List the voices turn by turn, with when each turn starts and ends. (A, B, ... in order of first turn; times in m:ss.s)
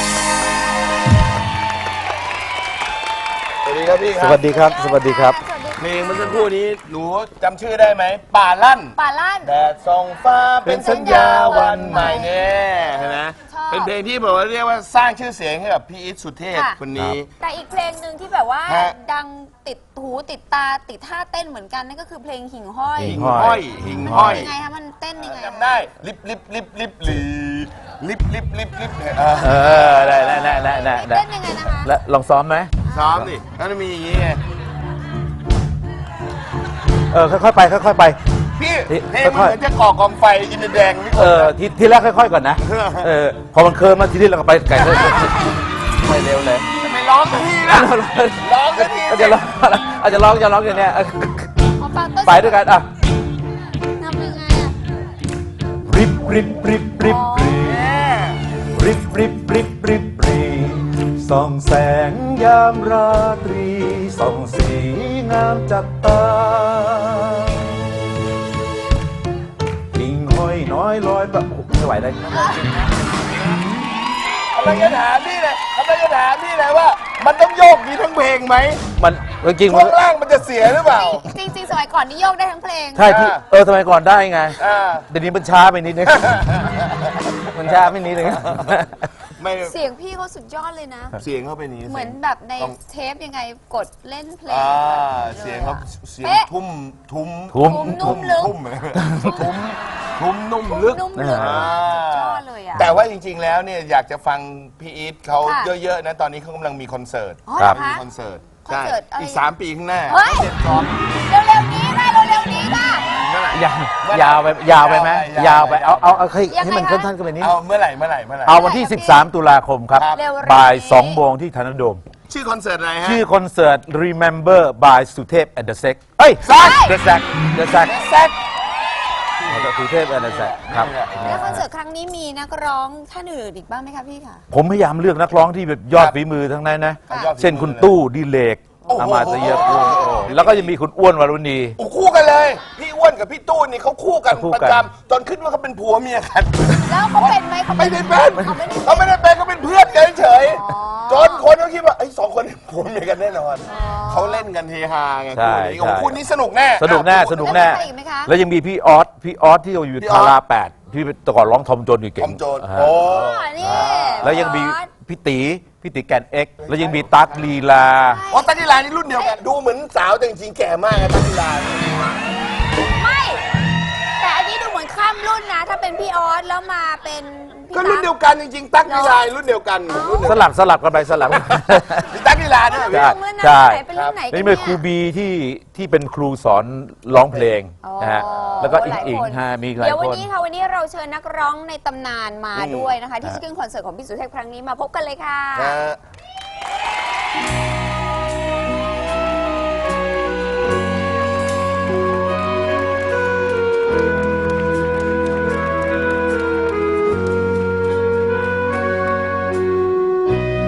0:03.6-0:04.5 A
0:04.2-0:05.4 B
0:04.4-0:06.5 C
0:05.8-0:17.3 A
0:09.0-0:09.5 C
0:10.6-0:12.2 B
0:10.8-0:13.9 C
0:16.5-0:16.8 C
0:17.4-0:23.2 C
0:18.7-0:19.0 A
0:23.0-0:24.5 B
0:23.1-0:24.5 A
0:24.4-0:25.7 C
0:25.2-0:30.7 A
0:29.4-0:32.7 B
0:30.2-0:31.9 C
0:32.9-0:34.4 A
0:37.1-0:38.2 B
0:38.6-0:41.5 A
0:38.9-0:39.6 B
0:41.1-0:46.7 B
0:42.6-0:43.1 A
0:44.8-0:45.2 A
0:46.7-0:49.6 A
0:47.6-0:51.6 B
0:51.7-0:52.7 C
0:52.2-0:52.9 B
0:53.9-0:54.8 C
0:55.9-0:57.8 B
0:57.0-0:57.6 C
0:57.6-0:58.4 A
0:58.7-1:07.7 B
1:09.9-1:12.7 B
1:14.5-1:18.8 A
1:19.0-1:20.0 B
1:19.7-1:21.3 A
1:21.0-1:23.1 C
1:22.9-1:26.4 B
1:23.1-1:23.4 A
1:24.6-1:25.1 A
1:27.4-1:29.0 B
1:29.4-1:29.7 A
1:29.6-1:31.2 C
1:31.2-1:32.8 A
1:31.8-1:36.5 C
1:34.5-1:51.1 A
1:37.5-1:38.3 B
1:37.6-1:38.5 C
1:38.9-1:39.5 B
1:40.6-1:42.9 C
1:41.2-1:41.7 B
1:45.4-1:45.7 C
1:47.5-1:48.0 C
1:48.6-1:49.5 C
1:50.0-1:50.5 C
1:51.1-1:53.1 C
1:53.1-1:56.4 A
1:53.5-1:57.6 B
1:56.5-1:57.1 C
1:57.4-1:58.6 A
1:58.4-2:02.0 B
1:58.5-1:59.3 C
1:59.9-2:00.2 A
2:00.1-2:01.2 C
2:02.3-2:03.2 A
2:03.0-2:08.0 B
2:06.4-2:06.9 A
2:06.6-2:06.9 C
2:07.8-2:08.3 A
2:09.4-2:11.6 A
2:09.5-2:11.6 B
2:11.2-2:14.4 C
2:14.5-2:21.8 B
2:17.1-2:18.0 A
2:18.8-2:19.7 C
2:18.9-2:20.7 A
2:21.8-2:37.8 A
2:24.3-2:24.8 B
2:26.8-2:29.1 C
2:30.5-2:31.5 C
2:33.7-2:34.5 C
2:35.3-2:36.2 B
2:36.8-2:43.1 B
2:37.4-2:38.3 C
2:40.0-2:40.4 A
2:42.2-2:44.4 A
2:43.1-2:44.9 C
2:43.6-2:48.2 B
2:46.6-2:47.1 A
2:48.0-2:49.4 C
2:48.3-2:52.0 A
2:52.8-2:53.5 C
2:54.2-2:58.1 C
2:57.7-3:00.4 A
2:58.8-2:59.2 C
2:59.9-3:00.4 C
3:00.2-3:02.1 B
3:01.2-3:03.2 A
3:02.7-3:04.8 C
3:02.9-3:10.3 B
3:03.9-3:04.2 A
3:07.8-3:15.8 C
3:12.6-3:12.9 A
3:15.6-3:16.0 A